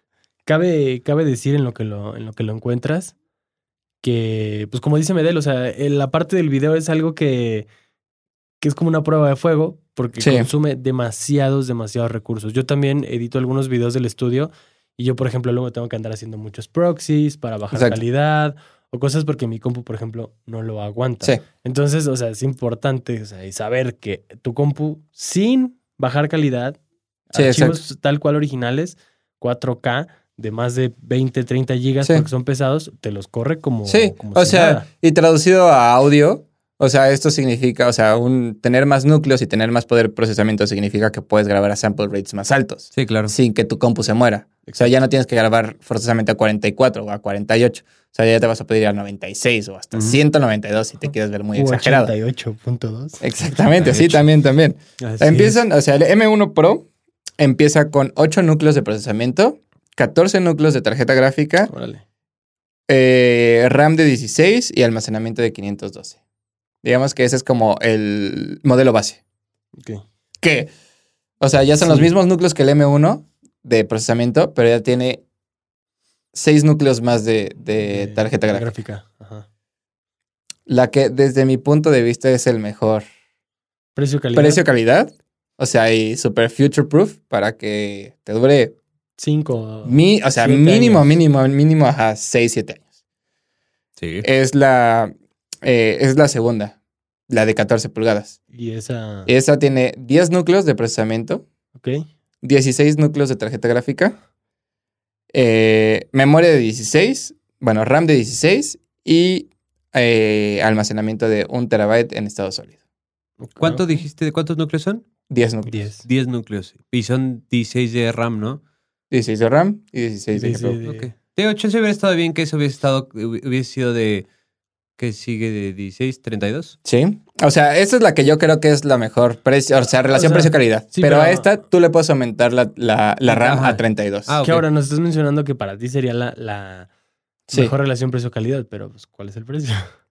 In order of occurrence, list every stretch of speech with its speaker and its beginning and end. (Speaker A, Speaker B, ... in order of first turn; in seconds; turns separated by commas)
Speaker A: 0.5-3.1, Speaker A: 4.0-7.7, Speaker A: 8.6-26.8, Speaker B: 10.2-10.5, Speaker B: 17.7-18.0, Speaker A: 27.3-34.8, Speaker B: 27.3-27.8, Speaker B: 33.9-52.1, Speaker C: 42.9-43.3, Speaker A: 44.6-44.9, Speaker A: 51.5-53.2, Speaker B: 53.2-56.9, Speaker C: 53.7-54.2, Speaker A: 55.1-55.5, Speaker B: 57.4-61.7, Speaker A: 61.7-62.0, Speaker B: 62.9-66.2, Speaker B: 66.8-69.2, Speaker B: 70.4-70.7, Speaker B: 71.4-75.2, Speaker A: 71.8-72.1, Speaker B: 76.3-78.7, Speaker A: 77.9-79.5, Speaker B: 80.7-83.0, Speaker A: 84.0-84.6, Speaker B: 84.3-88.8, Speaker A: 89.2-91.2, Speaker B: 89.8-92.8, Speaker C: 94.0-94.3, Speaker B: 94.2-95.1, Speaker B: 95.6-96.8, Speaker B: 97.3-98.4, Speaker A: 98.5-99.3, Speaker B: 99.3-101.4, Speaker A: 101.7-102.0, Speaker B: 102.4-104.2, Speaker B: 105.3-112.8, Speaker A: 113.4-113.9, Speaker C: 113.6-115.0, Speaker B: 115.3-115.8, Speaker A: 115.7-116.0, Speaker C: 116.0-118.6, Speaker B: 119.1-120.8, Speaker A: 120.3-121.1, Speaker C: 120.8-124.3, Speaker C: 125.0-126.8, Speaker B: 126.8-134.3, Speaker A: 130.1-131.5, Speaker C: 133.3-134.6, Speaker A: 134.4-136.9, Speaker A: 137.5-139.8